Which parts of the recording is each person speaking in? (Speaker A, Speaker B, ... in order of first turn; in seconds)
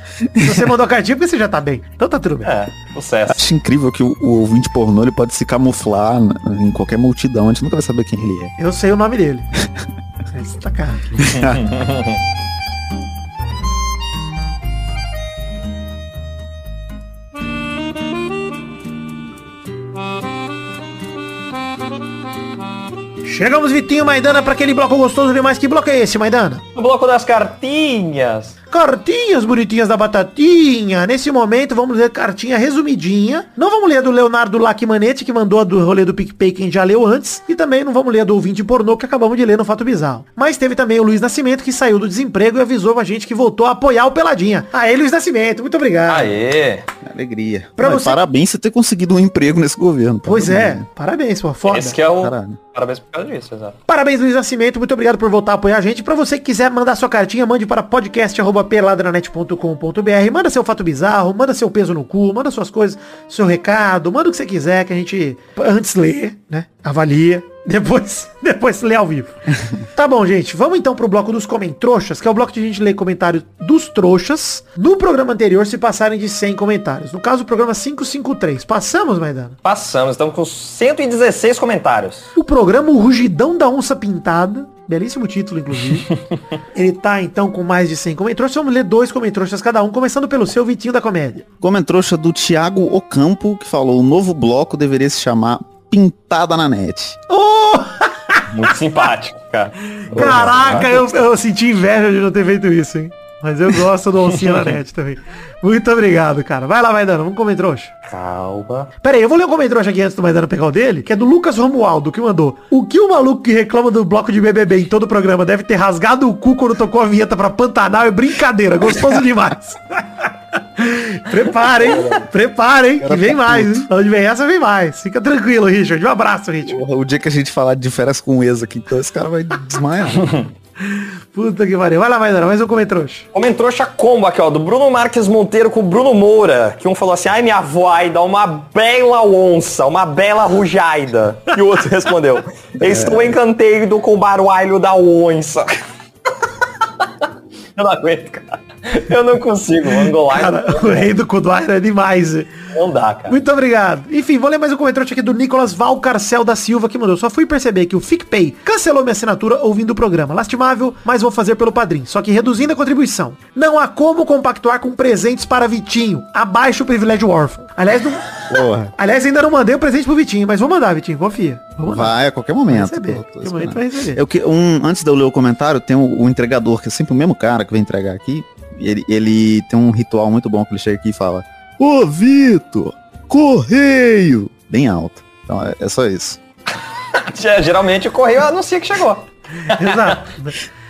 Speaker A: 0.3-0.7, 3.3-8.5, 11.2-11.6, 47.0-50.9, 52.2-52.6, 91.6-97.2, 100.2-100.6, 121.8-122.3, 123.0-123.9, 126.7-130.4, 142.8-143.4, 168.5-168.9, 171.9-186.4
Speaker B: 0.4-2.5, 8.6-9.5, 10.3-11.1, 23.2-26.6, 28.7-46.3, 47.8-48.2, 50.3-52.0, 53.9-79.6, 82.3-86.1, 86.8-91.5, 97.3-98.5, 100.1-107.9, 109.0-126.8, 130.8-133.3, 150.3-152.5, 153.3-168.3, 169.0-172.1, 172.7-174.2, 189.7-190.6
Speaker C: 2.4-3.4, 11.3-12.2, 26.8-28.5, 46.1-46.9, 51.7-53.8, 79.7-82.3, 98.5-101.1, 104.4-104.7, 108.1-108.9, 133.3-145.8, 147.8-151.1, 152.7-153.4, 187.2-190.2